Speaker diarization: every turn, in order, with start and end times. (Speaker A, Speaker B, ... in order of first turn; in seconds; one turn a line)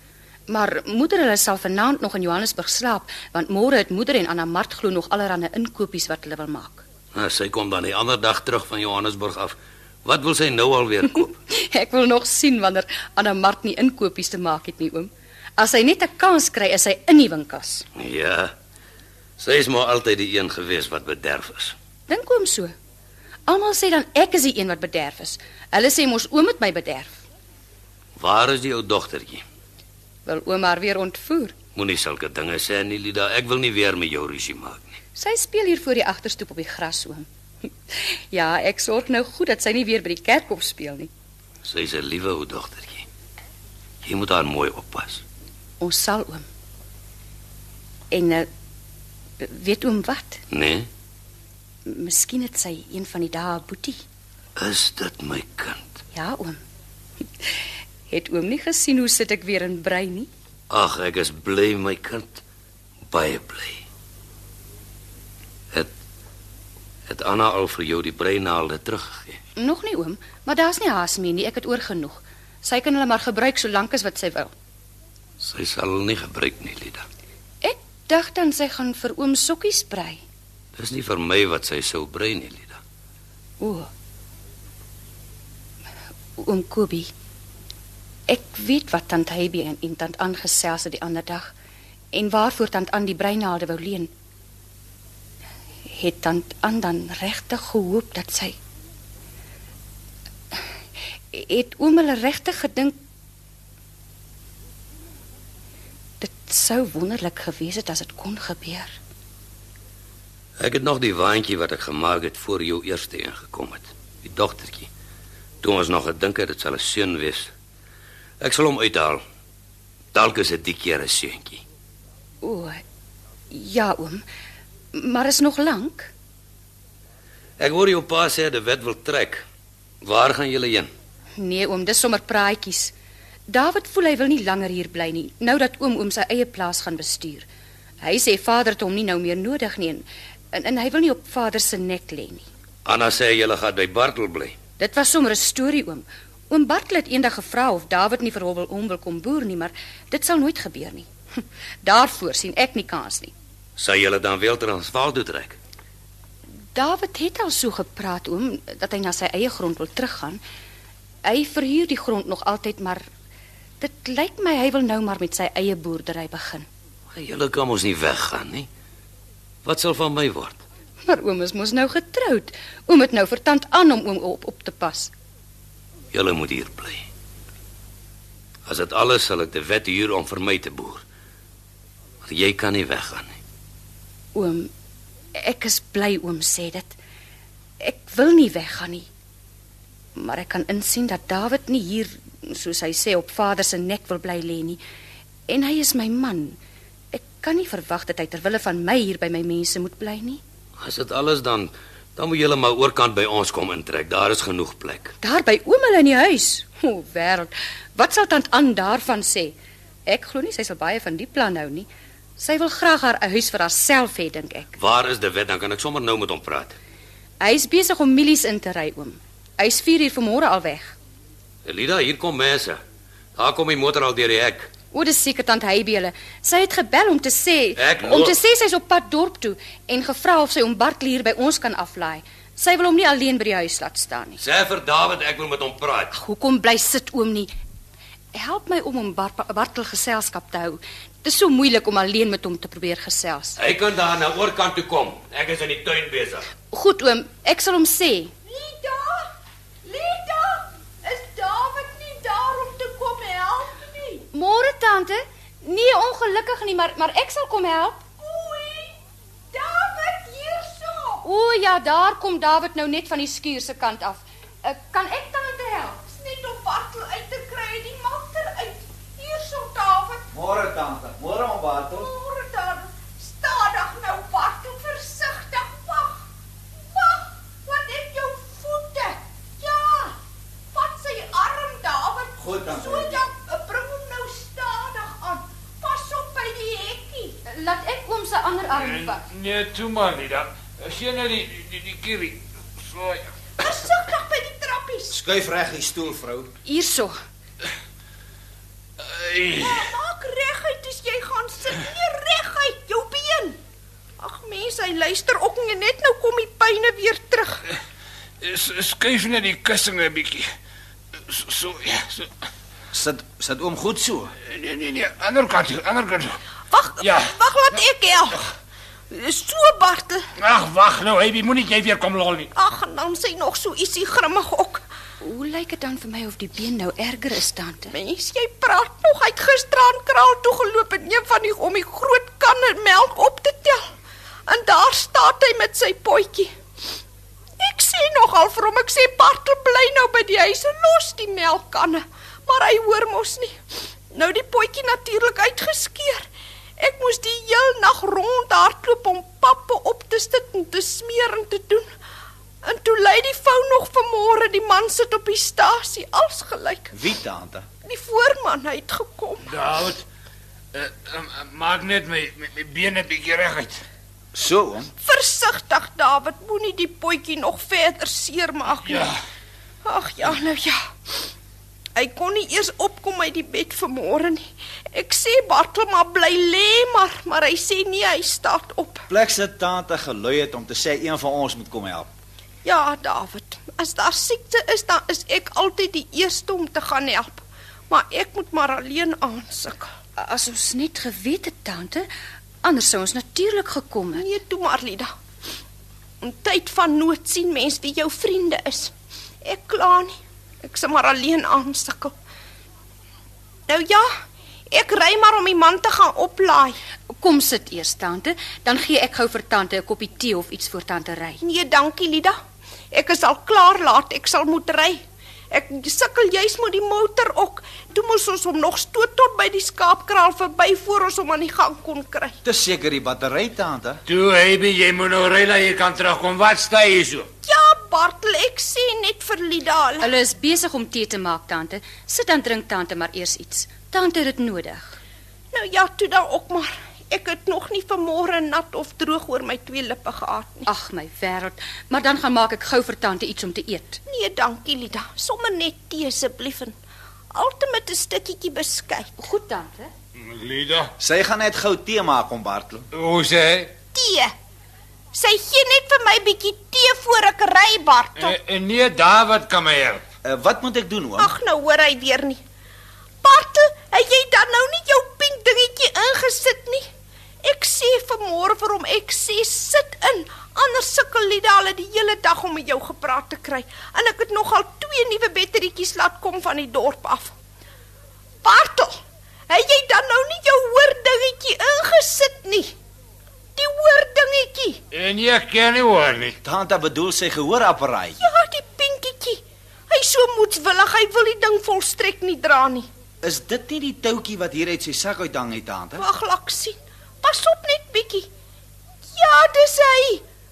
Speaker A: 0.5-6.9
Speaker B: 7.1-11.3
Speaker A: 11.5-17.9
Speaker B: 17.9-18.5
Speaker B: 19.4-21.7
Speaker A: 22.1-22.7
Speaker A: 23.4-27.2
Speaker B: 28.2-29.4
Speaker A: 30.2-31.6
Speaker B: 31.7-35.0
Speaker A: 35.1-37.3
Speaker A: 37.9-41.1
Speaker B: 41.6-43.0
Speaker B: 44.0-45.2
Speaker A: 45.8-46.5
Speaker A: 48.1-48.5
Speaker A: 49.4-50.4
Speaker B: 50.5-50.9
Speaker A: 51.9-54.0
Speaker B: 54.6-55.9
Speaker A: 56.1-56.6
Speaker A: 57.4-60.3
Speaker B: 60.7-62.4
Speaker B: 63.1-63.8
Speaker B: 67.1-69.4
Speaker A: 69.5-74.5
Speaker B: 75.4-77.0
Speaker A: 77.6-80.2
Speaker B: 80.7-82.8
Speaker A: 83.6-83.9
Speaker A: 86.4-87.1
Speaker A: 88.3-91.5
Speaker A: 92.1-94.1
Speaker A: 95.8-98.6
Speaker A: 101.3-103.0
Speaker A: 106.2-109.0
Speaker B: 110.6-114.9
Speaker B: 115.6-117.5
Speaker B: 118.4-119.2
Speaker B: 120.1-121.6
Speaker A: 122.4-122.8
Speaker A: 123.5-124.2
Speaker A: 124.9-126.1
Speaker B: 127.6-129.4
Speaker B: 130.0-130.9
Speaker A: 131.3-132.9
Speaker A: 133.5-137.5
Speaker A: 138.0-142.5
Speaker B: 142.8-144.6
Speaker A: 144.8-153.3
Speaker B: 153.8-155.6
Speaker A: 156.7-160.4
Speaker A: 161.2-163.1
Speaker A: 163.8-166.7
Speaker B: 167.1-168.7
Speaker B: 169.6-170.6
Speaker A: 171.1-175.1
Speaker B: 176.1-177.1
Speaker B: 178.7-181.0
Speaker B: 182.2-183.3
Speaker A: 184.3-184.7
Speaker A: 185.3-187.0
Speaker A: 187.8-189.1
Speaker A: 190.1-194.8
Speaker A: 195.5-196.6
Speaker A: 197.1-200.4
Speaker B: 200.8-205.1
Speaker A: 205.2-214.8
Speaker B: 214.8-216.8
Speaker A: 217.4-221.0
Speaker B: 221.6-222.8
Speaker B: 223.3-224.7
Speaker A: 224.9-234.4
Speaker B: 227.8-228.4
Speaker B: 234.4-236.1
Speaker A: 236.1-237.5
Speaker A: 238.3-243.6
Speaker B: 243.6-246.5
Speaker A: 246.6-248.3
Speaker C: 248.4-249.3
Speaker C: 249.8-254.2
Speaker A: 254.3-258.1
Speaker C: 258.1-259.0
Speaker C: 259.5-261.2
Speaker A: 261.2-266.0
Speaker C: 266.1-270.2
Speaker D: 270.3-272.1
Speaker C: 271.9-276.2
Speaker C: 276.8-280.2
Speaker C: 280.7-287.4
Speaker D: 282.4-283.2
Speaker A: 287.5-289.2
Speaker E: 288.8-293.3
Speaker C: 293.6-295.1
Speaker D: 295.1-296.5
Speaker A: 296.6-297.1
Speaker E: 299.0-299.9
Speaker C: 299.6-303.6
Speaker C: 304.2-307.6
Speaker E: 308.4-310.5
Speaker E: 311.3-312.3
Speaker D: 312.9-314.3
Speaker E: 314.4-316.4
Speaker C: 316.7-318.5
Speaker E: 317.0-317.3
Speaker C: 319.1-320.3
Speaker E: 320.4-322.5
Speaker C: 322.5-324.8
Speaker A: 325.2-327.9
Speaker C: 327.9-333.9
Speaker C: 334.5-336.5
Speaker C: 337.6-343.6
Speaker C: 344.1-346.2
Speaker C: 346.8-351.9
Speaker C: 352.6-356.9
Speaker D: 356.9-357.7
Speaker C: 357.8-359.5
Speaker E: 359.5-360.0
Speaker E: 360.7-363.8
Speaker D: 364.3-364.9
Speaker C: 365.0-369.1
Speaker E: 368.8-369.1
Speaker C: 369.8-371.3
Speaker C: 371.9-379.1
Speaker D: 379.1-382.1
Speaker C: 382.6-389.9
Speaker A: 390.2-392.1
Speaker A: 392.6-394.3
Speaker C: 394.1-395.1
Speaker C: 396.2-398.9
Speaker C: 399.4-402.1
Speaker C: 403.7-404.1
Speaker C: 404.7-406.8
Speaker A: 407.1-411.4
Speaker C: 411.4-412.4
Speaker C: 412.9-415.0
Speaker C: 415.5-422.4
Speaker D: 422.4-424.0
Speaker E: 424.1-427.3
Speaker C: 427.4-430.1
Speaker A: 430.0-435.0
Speaker C: 435.5-440.7
Speaker A: 440.6-444.0
Speaker C: 444.1-446.8
Speaker C: 447.3-449.2
Speaker A: 449.2-449.9
Speaker E: 450.2-450.9
Speaker D: 451.0-452.9
Speaker E: 452.9-453.7
Speaker C: 453.9-454.3
Speaker C: 455.1-458.4
Speaker E: 458.2-460.0
Speaker D: 460.2-461.3
Speaker C: 461.2-462.4
Speaker C: 463.2-466.9
Speaker C: 467.4-477.3
Speaker C: 478.4-482.7
Speaker C: 483.6-484.8
Speaker E: 484.9-486.3
Speaker D: 486.4-488.2
Speaker C: 488.2-492.9
Speaker D: 493.2-496.0
Speaker C: 496.0-498.3
Speaker C: 499.1-500.2